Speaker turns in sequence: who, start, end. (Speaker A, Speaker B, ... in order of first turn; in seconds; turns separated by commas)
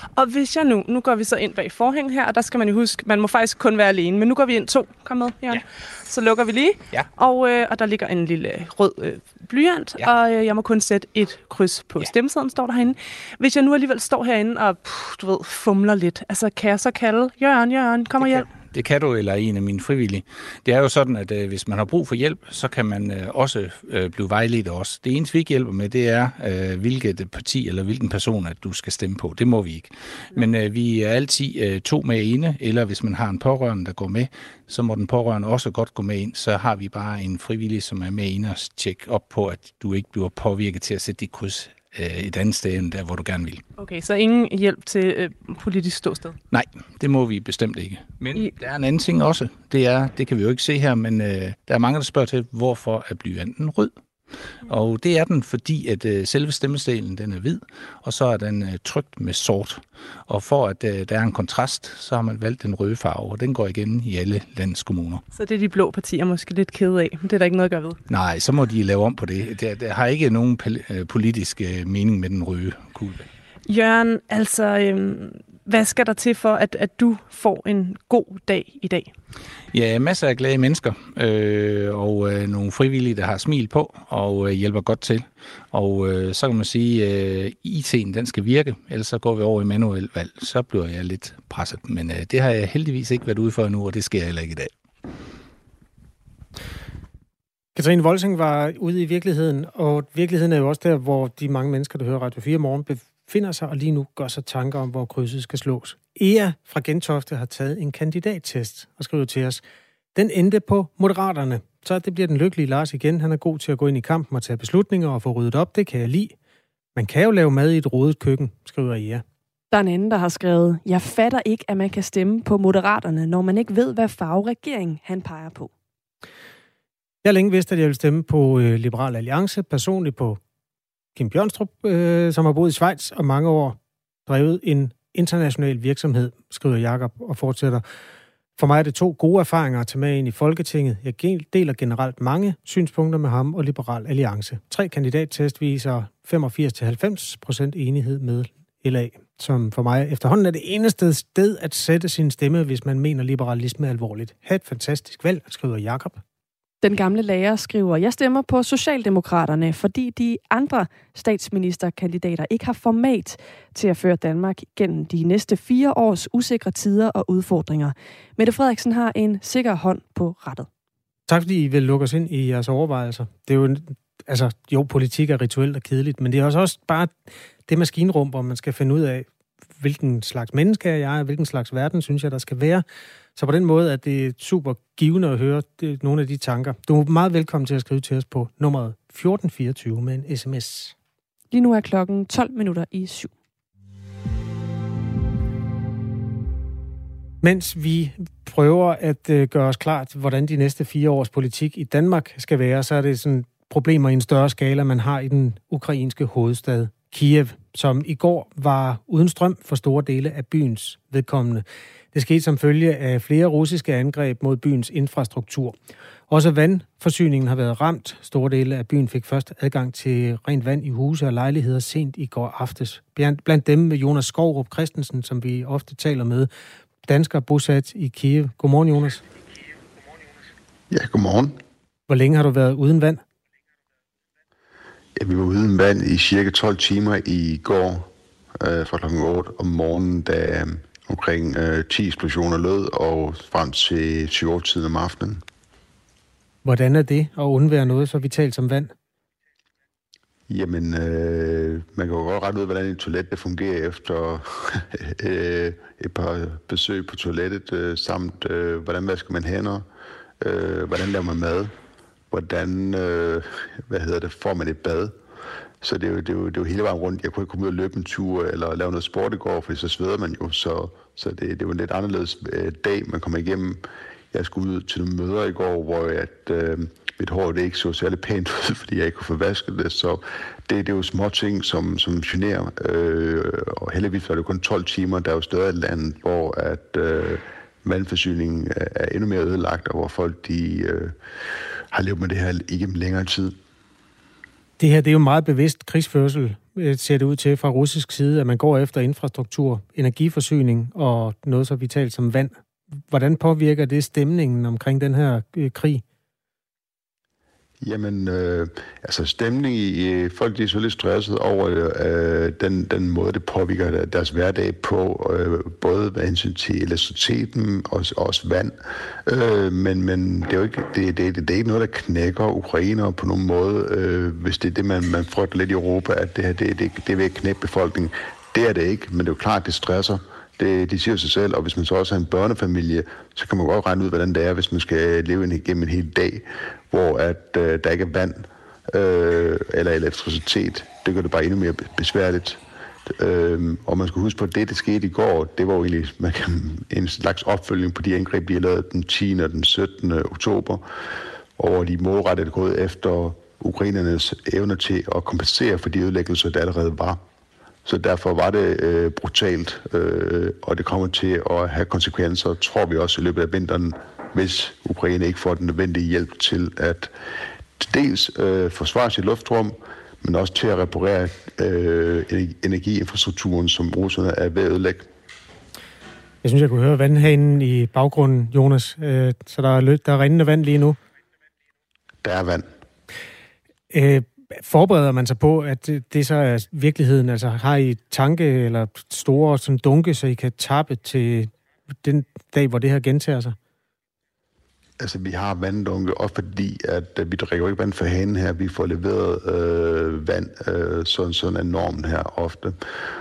Speaker A: 0.2-18.5, Speaker B: 18.2-43.6, Speaker A: 43.8-46.4, Speaker B: 46.5-54.0, Speaker B: 54.6-65.2, Speaker A: 65.3-68.0, Speaker B: 68.1-73.3, Speaker A: 73.7-79.1, Speaker B: 79.7-94.7, Speaker C: 97.8-109.6, Speaker C: 110.2-116.3, Speaker C: 117.0-119.2, Speaker D: 119.7-125.7, Speaker C: 127.2-130.4, Speaker C: 131.2-137.8, Speaker C: 138.6-156.2, Speaker D: 156.8-170.7, Speaker C: 171.3-179.3, Speaker C: 179.8-182.8, Speaker C: 183.4-190.9, Speaker D: 191.5-193.3, Speaker C: 197.4-215.8, Speaker C: 216.3-226.5, Speaker C: 227.1-229.2, Speaker E: 230.9-231.6, Speaker C: 232.1-233.2, Speaker E: 235.2-245.4, Speaker C: 246.6-248.9, Speaker E: 250.5-259.9, Speaker E: 260.4-261.7, Speaker E: 262.3-265.1, Speaker E: 265.8-291.2, Speaker E: 291.9-293.6, Speaker C: 294.8-306.0, Speaker E: 307.8-350.8, Speaker E: 351.6-357.2, Speaker E: 357.9-367.1, Speaker E: 367.8-375.1, Speaker C: 376.4-381.0, Speaker E: 382.2-382.7, Speaker C: 383.9-391.5, Speaker C: 392.0-393.6, Speaker E: 395.0-402.8